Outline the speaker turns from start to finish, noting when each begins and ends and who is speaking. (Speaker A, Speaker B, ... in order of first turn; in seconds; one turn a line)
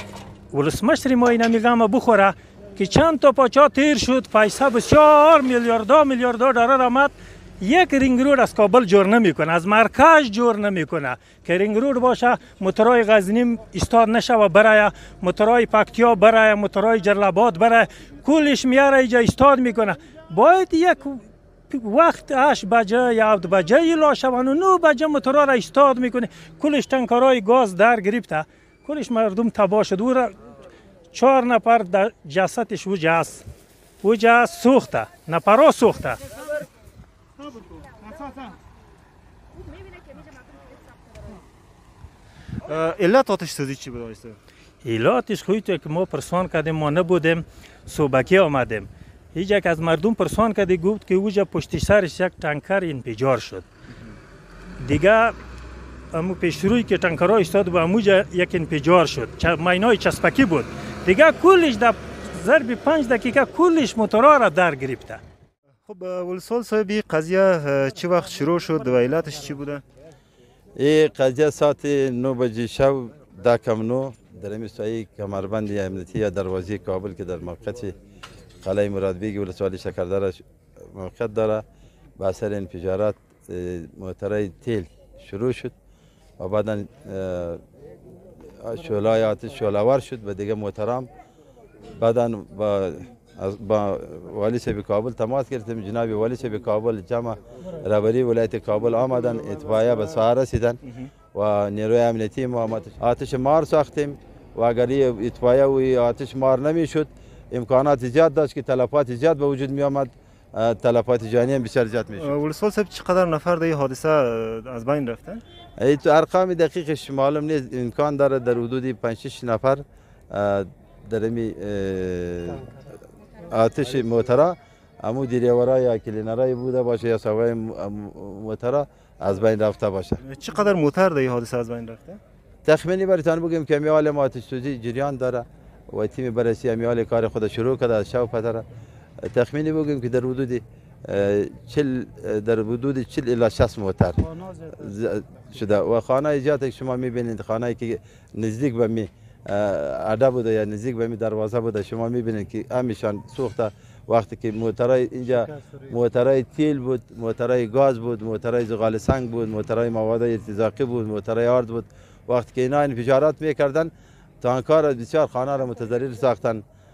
Speaker A: 0.5-30.3
Speaker A: 31.1-33.4
Speaker A: 34.0-36.2
Speaker B: 42.6-44.4
Speaker A: 44.8-53.6
Speaker A: 54.8-55.4
Speaker A: 56.1-65.2
Speaker B: 65.8-69.8
Speaker C: 70.8-77.9
Speaker C: 78.6-81.6
Speaker C: 82.2-85.7
Speaker C: 86.4-87.6
Speaker C: 88.5-91.1
Speaker C: 92.0-100.8
Speaker B: 100.8-101.1
Speaker C: 101.3-112.3
Speaker B: 112.2-115.4
Speaker C: 115.8-122.8
Speaker C: 123.5-130.2
Speaker B: 130.2-132.2
Speaker C: 132.6-138.6
Speaker C: 139.2-166.6